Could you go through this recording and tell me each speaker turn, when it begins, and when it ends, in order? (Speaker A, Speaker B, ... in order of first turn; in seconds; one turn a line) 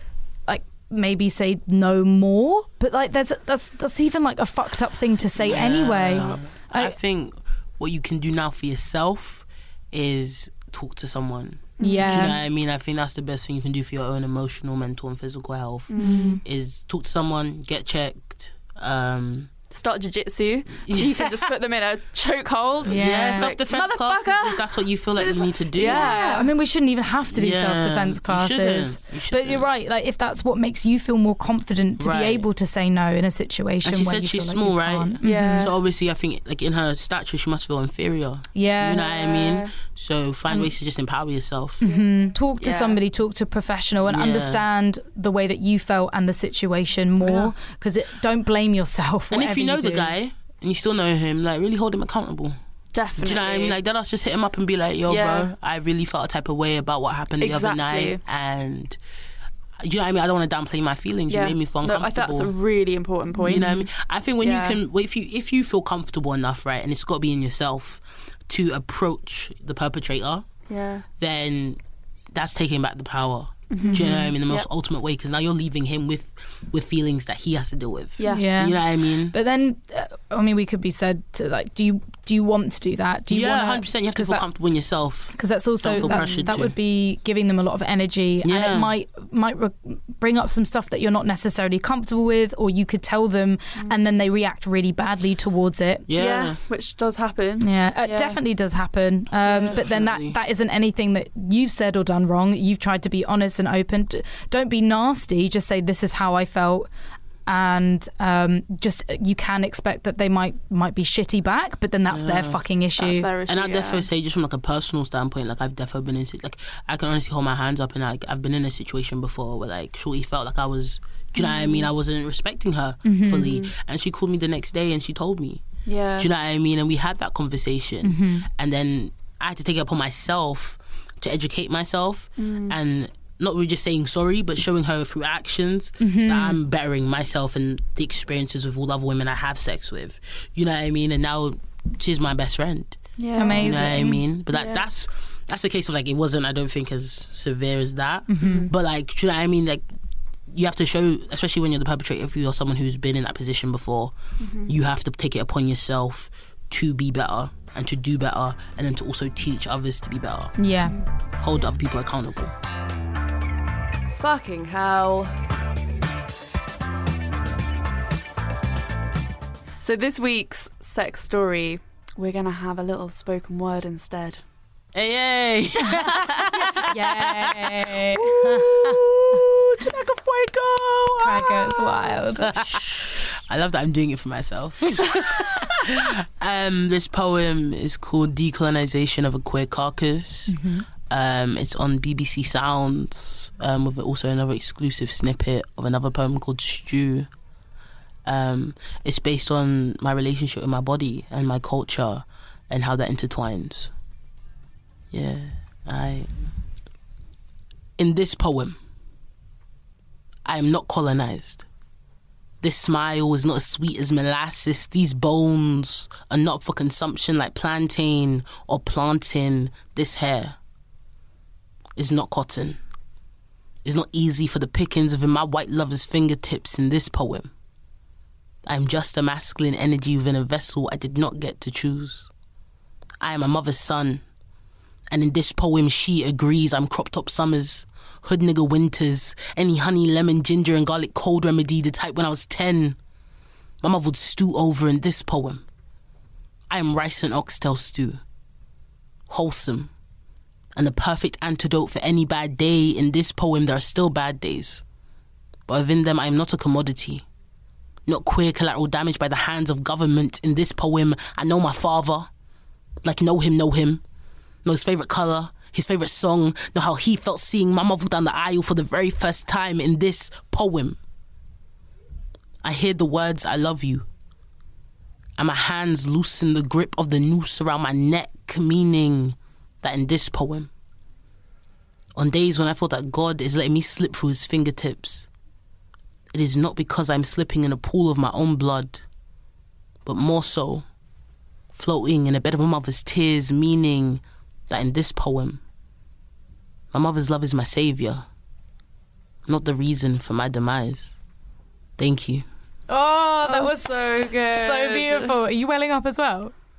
Speaker A: 0.5-7.0
Speaker B: 5.4-19.5
Speaker C: 5.4-6.4
Speaker C: 11.8-12.3
Speaker A: 11.8-12.4
Speaker C: 15.9-16.4
Speaker A: 16.0-16.4
Speaker C: 19.7-23.5
Speaker B: 20.7-21.5
Speaker B: 22.8-26.1
Speaker A: 22.9-24.6
Speaker C: 25.7-26.5
Speaker A: 25.8-35.7
Speaker B: 27.3-29.7
Speaker B: 32.0-32.5
Speaker B: 33.8-41.8
Speaker C: 35.2-35.7
Speaker A: 38.5-39.0
Speaker C: 38.9-39.7
Speaker C: 41.8-42.1
Speaker A: 41.8-50.1
Speaker C: 42.6-43.0
Speaker B: 44.1-44.6
Speaker B: 47.2-47.5
Speaker B: 49.3-52.5
Speaker C: 52.9-53.8
Speaker B: 53.2-59.0
Speaker C: 55.1-55.5
Speaker C: 57.4-58.2
Speaker B: 59.8-62.5
Speaker C: 61.3-63.9
Speaker B: 63.4-70.4
Speaker C: 64.4-64.8
Speaker C: 70.7-71.0
Speaker B: 71.2-71.8
Speaker B: 72.3-79.3
Speaker C: 73.7-74.7
Speaker A: 73.8-74.3
Speaker C: 78.2-78.5
Speaker A: 78.3-84.4
Speaker B: 83.3-86.7
Speaker A: 85.3-96.1
Speaker C: 86.0-86.5
Speaker B: 88.4-88.9
Speaker B: 96.1-96.6
Speaker C: 96.1-98.4
Speaker A: 97.6-106.9
Speaker C: 99.4-99.8
Speaker B: 99.6-100.4
Speaker A: 107.5-113.3
Speaker B: 112.1-112.6
Speaker C: 113.0-114.0
Speaker B: 113.5-125.6
Speaker A: 123.0-123.6
Speaker C: 125.8-126.3
Speaker B: 126.2-149.8
Speaker A: 128.0-128.5
Speaker C: 132.4-132.8
Speaker A: 136.0-136.6
Speaker C: 143.2-144.0
Speaker A: 143.3-144.2
Speaker C: 144.5-144.8
Speaker A: 148.3-148.7
Speaker C: 148.4-148.7
Speaker B: 150.5-154.1
Speaker C: 154.4-154.7
Speaker B: 154.7-160.6
Speaker A: 160.6-160.9
Speaker B: 161.4-162.5
Speaker C: 164.1-165.3
Speaker C: 169.8-174.4
Speaker B: 174.9-190.6
Speaker A: 175.8-179.0
Speaker A: 181.2-182.6
Speaker A: 190.5-190.8
Speaker B: 191.1-197.3
Speaker B: 198.2-203.9
Speaker B: 205.1-206.3
Speaker B: 208.0-208.8
Speaker B: 210.4-211.7
Speaker B: 212.6-220.6
Speaker B: 221.9-222.8
Speaker B: 223.8-227.5
Speaker B: 228.7-232.3
Speaker B: 233.2-234.2
Speaker B: 235.1-243.0
Speaker B: 243.8-245.6
Speaker B: 246.7-248.2
Speaker B: 249.3-249.9
Speaker B: 250.7-254.8
Speaker B: 255.7-257.2
Speaker B: 258.1-262.3
Speaker B: 263.0-264.0
Speaker B: 264.6-271.0
Speaker B: 272.6-274.1
Speaker B: 275.4-280.7
Speaker B: 282.1-285.3
Speaker B: 286.3-289.0
Speaker B: 290.0-290.8
Speaker B: 291.7-295.6
Speaker B: 296.9-298.2
Speaker B: 299.5-301.1
Speaker B: 302.0-302.4
Speaker A: 302.9-306.5
Speaker C: 303.4-305.3